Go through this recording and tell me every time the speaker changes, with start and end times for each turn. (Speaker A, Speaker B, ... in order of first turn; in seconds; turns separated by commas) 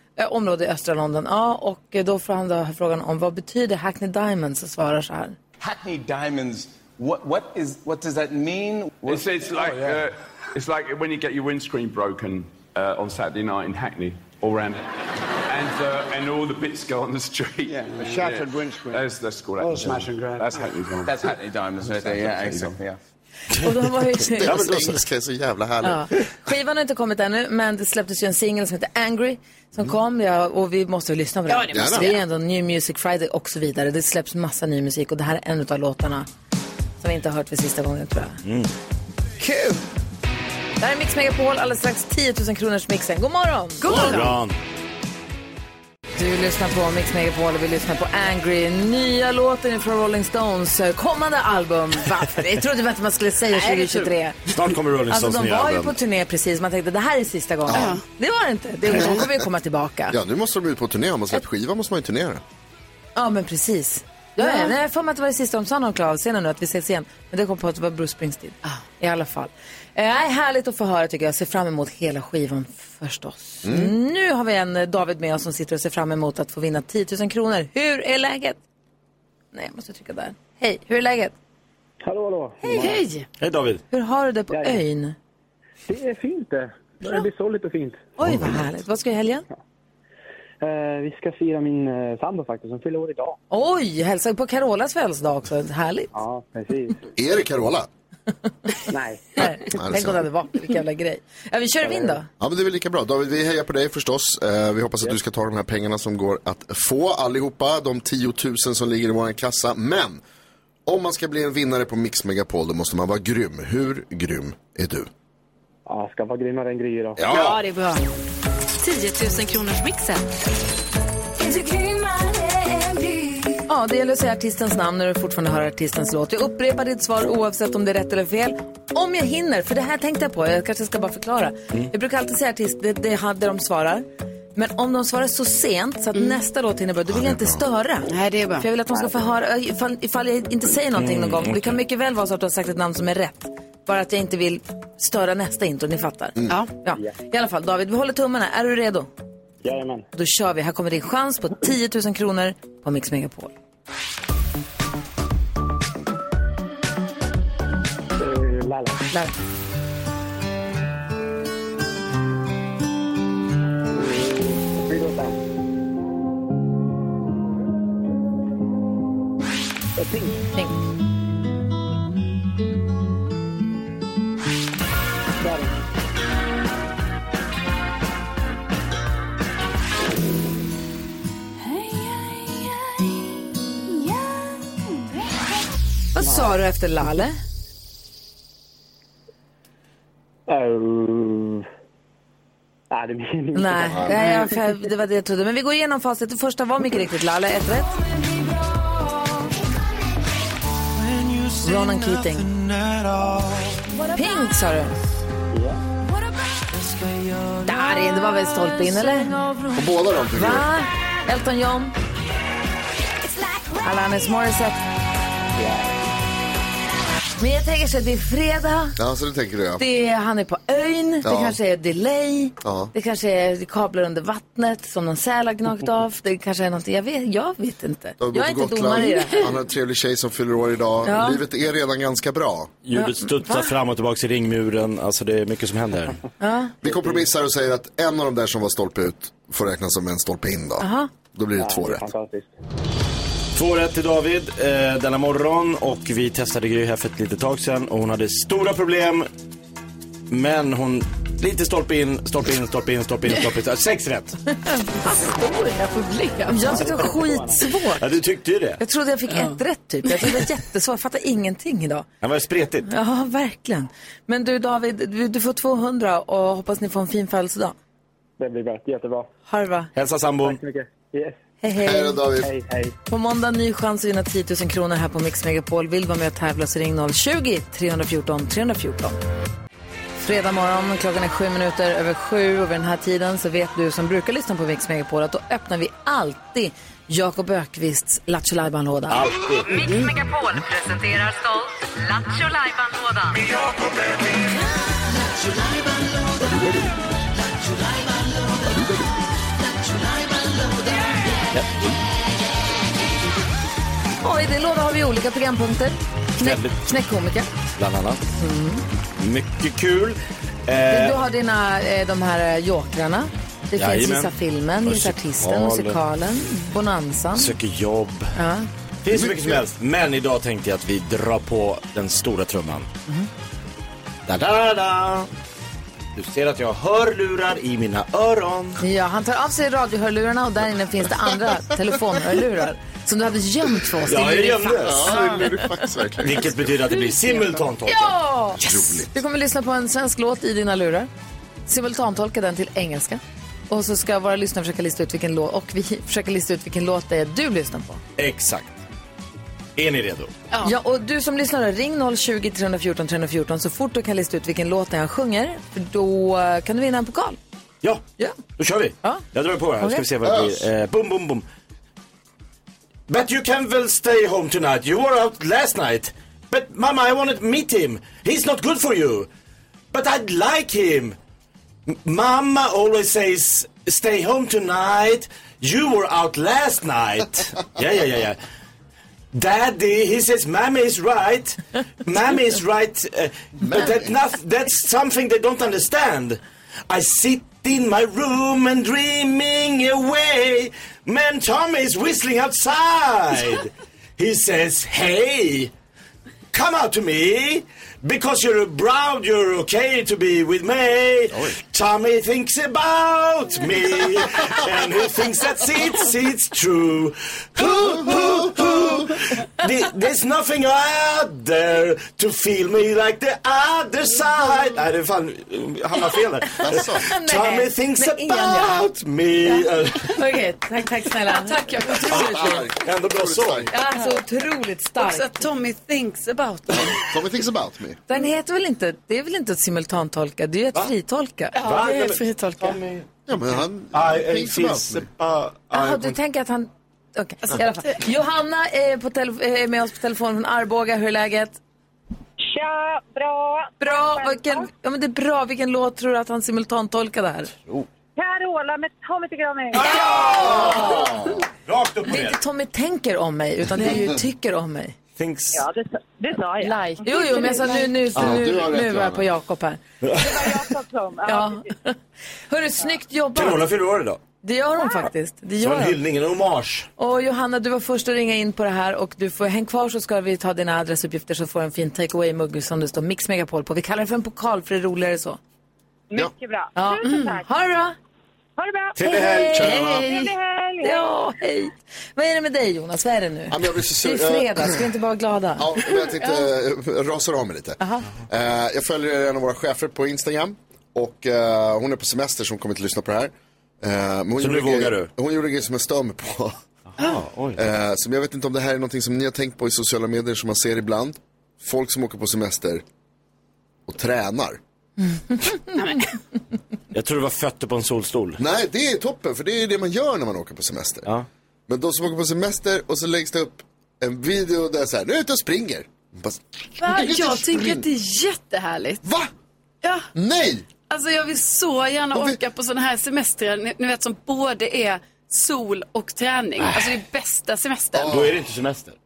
Speaker A: 0.2-5.4, Speaker B: 5.6-10.0, Speaker C: 9.0-14.8, Speaker C: 15.5-22.9, Speaker B: 17.7-19.1, Speaker B: 19.6-23.0, Speaker A: 23.6-24.7, Speaker D: 24.4-26.1, Speaker E: 24.4-25.0, Speaker A: 25.8-36.3, Speaker F: 31.5-31.9, Speaker D: 31.7-32.2, Speaker A: 37.0-38.4, Speaker E: 38.5-38.7, Speaker A: 39.4-39.9, Speaker A: 40.8-44.2, Speaker F: 43.8-44.4, Speaker E: 43.9-44.6, Speaker A: 46.2-54.4, Speaker F: 53.6-54.1, Speaker E: 54.5-56.0, Speaker A: 55.1-60.2, Speaker D: 57.7-58.0, Speaker F: 57.7-58.0, Speaker D: 59.0-59.3, Speaker D: 60.1-62.4, Speaker A: 63.2-78.6, Speaker F: 64.4-64.7, Speaker D: 73.6-73.9, Speaker A: 79.5-81.3, Speaker G: 82.0-83.0, Speaker A: 82.6-83.0, Speaker F: 82.8-83.3, Speaker E: 83.4-83.8, Speaker A: 83.9-85.2, Speaker G: 84.5-84.8, Speaker G: 85.9-88.1, Speaker A: 88.2-89.5, Speaker D: 88.2-88.7, Speaker G: 90.6-93.4, Speaker A: 93.5-96.1, Speaker G: 96.1-97.1, Speaker D: 97.2-97.9, Speaker G: 98.9-99.4, Speaker A: 99.4-102.3, Speaker D: 99.7-100.2, Speaker G: 101.8-102.2, Speaker D: 102.4-110.2, Speaker D: 110.9-115.1, Speaker G: 115.9-117.2, Speaker E: 117.3-117.6, Speaker F: 117.3-118.0, Speaker H: 118.8-120.2, Speaker A: 123.7-149.1, Speaker D: 137.1-137.6, Speaker F: 138.1-138.7, Speaker E: 141.0-141.8, Speaker G: 149.6-150.1, Speaker A: 150.1-153.5, Speaker G: 158.2-159.1, Speaker G: 163.9-165.4, Speaker G: 170.0-170.4, Speaker G: 175.4-175.8, Speaker A: 186.1-187.4, Speaker G: 186.2-186.5, Speaker G: 190.5-191.7, Speaker G: 192.9-194.7, Speaker A: 193.6-198.0, Speaker D: 193.9-194.2, Speaker A: 201.5-202.5, Speaker E: 202.9-203.4, Speaker A: 204.1-205.0, Speaker G: 205.5-205.8, Speaker A: 207.6-209.4, Speaker D: 209.7-210.7, Speaker A: 210.3-211.9, Speaker A: 213.8-214.8, Speaker G: 215.6-216.0, Speaker A: 217.4-219.0, Speaker D: 219.0-219.8, Speaker A: 219.8-229.5, Speaker D: 221.2-221.6, Speaker D: 222.6-222.9, Speaker D: 228.2-232.8, Speaker A: 231.1-231.4, Speaker E: 232.8-236.2, Speaker A: 232.9-233.7, Speaker A: 236.4-236.7, Speaker D: 236.8-242.1, Speaker G: 236.8-237.2, Speaker A: 240.8-241.1, Speaker G: 241.6-242.5, Speaker E: 243.6-249.3, Speaker E: 250.3-254.4, Speaker A: 254.5-255.9, Speaker A: 256.4-258.1, Speaker G: 256.6-257.6, Speaker E: 258.0-258.8, Speaker A: 258.8-262.1, Speaker E: 262.2-262.9, Speaker A: 262.8-267.7, Speaker G: 268.4-269.3, Speaker A: 269.5-269.9, Speaker E: 269.9-270.6, Speaker G: 270.4-271.4, Speaker A: 271.6-272.2, Speaker D: 271.8-272.5, Speaker G: 272.4-272.9, Speaker A: 273.1-279.2, Speaker A: 280.2-289.3, Speaker E: 289.1-290.1, Speaker H: 289.7-293.4, Speaker E: 301.5-301.8, Speaker A: 304.2-307.5, Speaker E: 306.4-306.8, Speaker E: 307.8-308.2, Speaker A: 308.4-308.9, Speaker E: 309.2-311.2, Speaker A: 310.9-317.6, Speaker E: 313.8-316.0, Speaker E: 317.4-318.3, Speaker A: 318.4-318.7, Speaker E: 319.0-322.9, Speaker D: 319.1-319.6, Speaker E: 324.3-325.3, Speaker E: 326.2-328.8, Speaker A: 328.8-335.9, Speaker E: 334.1-335.2, Speaker D: 334.8-336.6, Speaker E: 336.2-338.2, Speaker A: 337.3-341.1, Speaker D: 338.6-339.1, Speaker A: 341.7-348.0, Speaker E: 348.2-348.7, Speaker E: 349.8-350.3, Speaker A: 350.6-357.4, Speaker E: 358.6-361.4, Speaker A: 359.8-360.1, Speaker D: 360.2-360.7, Speaker E: 363.1-369.3, Speaker E: 369.9-371.2, Speaker E: 371.9-378.4, Speaker E: 379.3-395.7, Speaker D: 383.6-384.1, Speaker E: 396.5-420.2, Speaker D: 407.9-409.0, Speaker D: 416.6-417.1, Speaker A: 417.0-418.9, Speaker A: 419.5-422.6, Speaker F: 421.2-422.6, Speaker D: 422.1-423.7, Speaker E: 422.2-423.7, Speaker A: 423.7-425.5, Speaker F: 425.0-427.1, Speaker D: 426.7-428.0, Speaker A: 428.1-431.6, Speaker F: 431.6-432.8, Speaker E: 431.6-433.1, Speaker D: 433.3-435.1, Speaker E: 433.9-436.2, Speaker A: 435.7-441.6, Speaker I: 442.5-444.7, Speaker A: 443.8-447.5, Speaker I: 448.2-450.0, Speaker E: 449.7-452.4, Speaker A: 449.9-451.1, Speaker D: 450.4-451.3, Speaker A: 452.1-454.9, Speaker E: 455.2-455.6, Speaker I: 455.5-458.0, Speaker A: 457.0-459.8, Speaker D: 458.1-459.3, Speaker E: 460.0-460.5, Speaker I: 460.2-461.7, Speaker A: 461.3-462.0, Speaker A: 462.5-463.6, Speaker E: 463.4-464.2, Speaker A: 464.4-466.0, Speaker E: 465.6-466.9, Speaker A: 467.0-475.4, Speaker I: 476.1-477.5, Speaker A: 476.8-477.9, Speaker I: 478.6-481.2, Speaker E: 478.9-480.0, Speaker A: 479.0-480.2, Speaker D: 479.6-480.0, Speaker A: 480.8-485.7, Speaker D: 483.5-484.8, Speaker D: 485.6-496.6, Speaker A: 487.8-488.1, Speaker E: 494.4-495.1, Speaker E: 497.0-497.6, Speaker D: 497.6-502.8, Speaker D: 503.9-504.6, Speaker F: 505.7-506.1, Speaker E: 506.9-508.4, Speaker D: 508.4-511.1, Speaker D: 511.7-517.9, Speaker F: 516.8-519.0, Speaker D: 519.0-519.3, Speaker F: 519.8-520.1, Speaker D: 520.1-520.7, Speaker F: 520.9-528.1, Speaker D: 522.1-522.4, Speaker E: 526.6-526.9, Speaker D: 528.0-528.4, Speaker E: 528.1-529.0